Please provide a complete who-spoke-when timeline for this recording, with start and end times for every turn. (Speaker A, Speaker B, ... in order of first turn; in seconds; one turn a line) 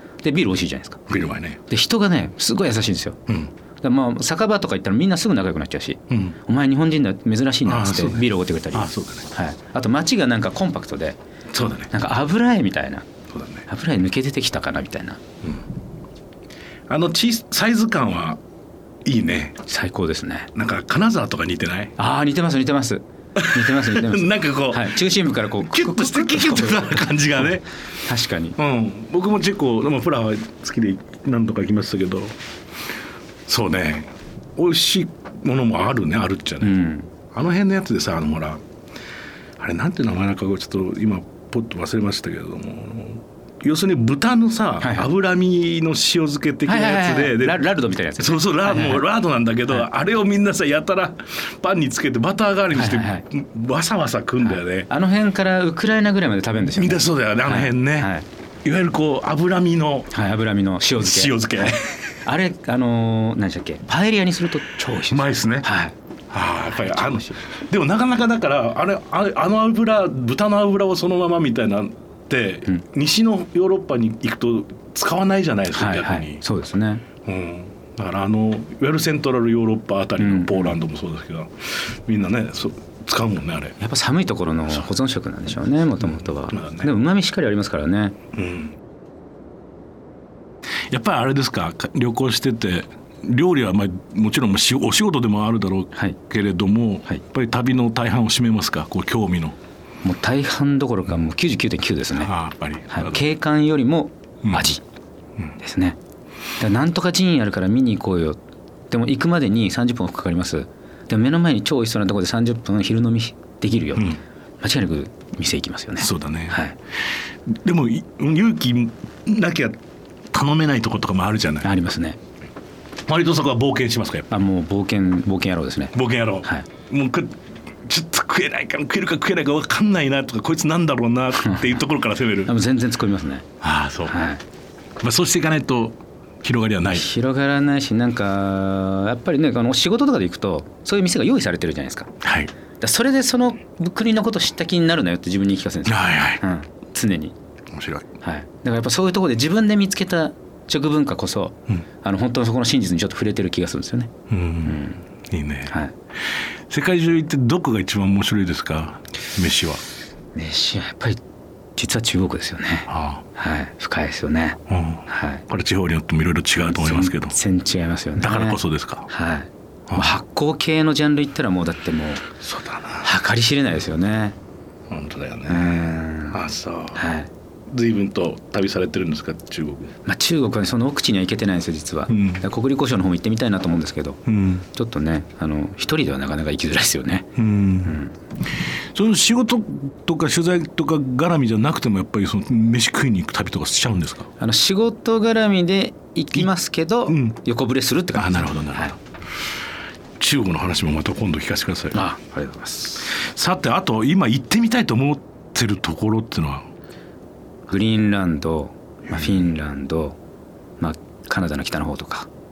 Speaker A: 0.2-1.0
Speaker B: 1.1-1.6
Speaker A: 1.7-3.2
Speaker A: 3.8-11.2
Speaker B: 6.1-6.3
Speaker B: 7.7-9.3
Speaker B: 11.5-11.9
Speaker A: 11.9-13.1
Speaker B: 13.3-13.6
Speaker A: 13.7-15.2
Speaker B: 16.9-18.4
Speaker B: 19.0-19.6
Speaker A: 19.7-20.5
Speaker B: 20.5-21.9
Speaker A: 22.0-27.1
Speaker B: 23.4-27.6
Speaker A: 28.0-28.6
Speaker B: 28.6-32.4
Speaker B: 33.5-36.8
Speaker A: 36.6-37.1
Speaker B: 37.3-38.6
Speaker B: 39.6-54.9
Speaker A: 44.8-45.1
Speaker A: 46.6-49.0
Speaker A: 52.7-53.2
Speaker A: 54.4-58.2
Speaker B: 56.8-58.1
Speaker B: 58.6-60.1
Speaker A: 60.1-65.9
Speaker B: 61.0-62.1
Speaker B: 65.1-65.7
Speaker B: 66.3-76.4
Speaker A: 66.7-67.4
Speaker A: 75.7-77.0
Speaker B: 77.2-83.8
Speaker A: 80.2-80.7
Speaker A: 83.8-88.2
Speaker B: 86.2-86.9
Speaker B: 88.3-88.8
Speaker B: 90.9-99.6
Speaker A: 100.0-102.3
Speaker B: 102.2-103.2
Speaker A: 102.9-104.8
Speaker B: 104.4-104.7
Speaker A: 105.6-106.0
Speaker A: 106.6-108.4
Speaker A: 108.9-116.7
Speaker B: 116.0-116.6
Speaker B: 117.5-119.8
Speaker B: 120.3-121.7
Speaker A: 121.6-122.2
Speaker B: 123.1-124.3
Speaker A: 124.3-126.7
Speaker B: 125.9-132.5
Speaker A: 131.4-131.8
Speaker A: 132.4-133.5
Speaker B: 133.6-134.2
Speaker A: 134.1-134.4
Speaker B: 135.0-137.1
Speaker A: 136.9-142.1
Speaker B: 142.2-142.5
Speaker A: 142.8-147.3
Speaker B: 145.8-146.4
Speaker B: 147.7-148.1
Speaker A: 148.2-154.1
Speaker B: 154.3-159.8
Speaker A: 154.6-155.0
Speaker A: 155.7-155.9
Speaker A: 160.3-161.2
Speaker A: 161.8-165.4
Speaker B: 162.9-163.2
Speaker B: 164.7-167.4
Speaker A: 166.7-172.3
Speaker B: 168.2-169.1
Speaker B: 169.9-170.2
Speaker B: 172.4-173.1
Speaker A: 173.0-174.3
Speaker B: 174.9-175.8
Speaker A: 175.5-176.4
Speaker B: 176.3-177.1
Speaker A: 176.9-177.3
Speaker B: 177.7-179.9
Speaker A: 180.0-184.2
Speaker B: 182.1-182.4
Speaker B: 184.3-184.6
Speaker A: 184.7-187.3
Speaker B: 187.4-187.9
Speaker A: 187.8-188.1
Speaker B: 188.9-194.3
Speaker A: 194.4-198.9
Speaker B: 197.1-197.3
Speaker B: 198.1-199.0
Speaker B: 200.2-202.0
Speaker A: 201.9-203.1
Speaker B: 203.0-206.7
Speaker A: 207.7-210.2
Speaker B: 209.1-209.4
Speaker A: 210.8-212.3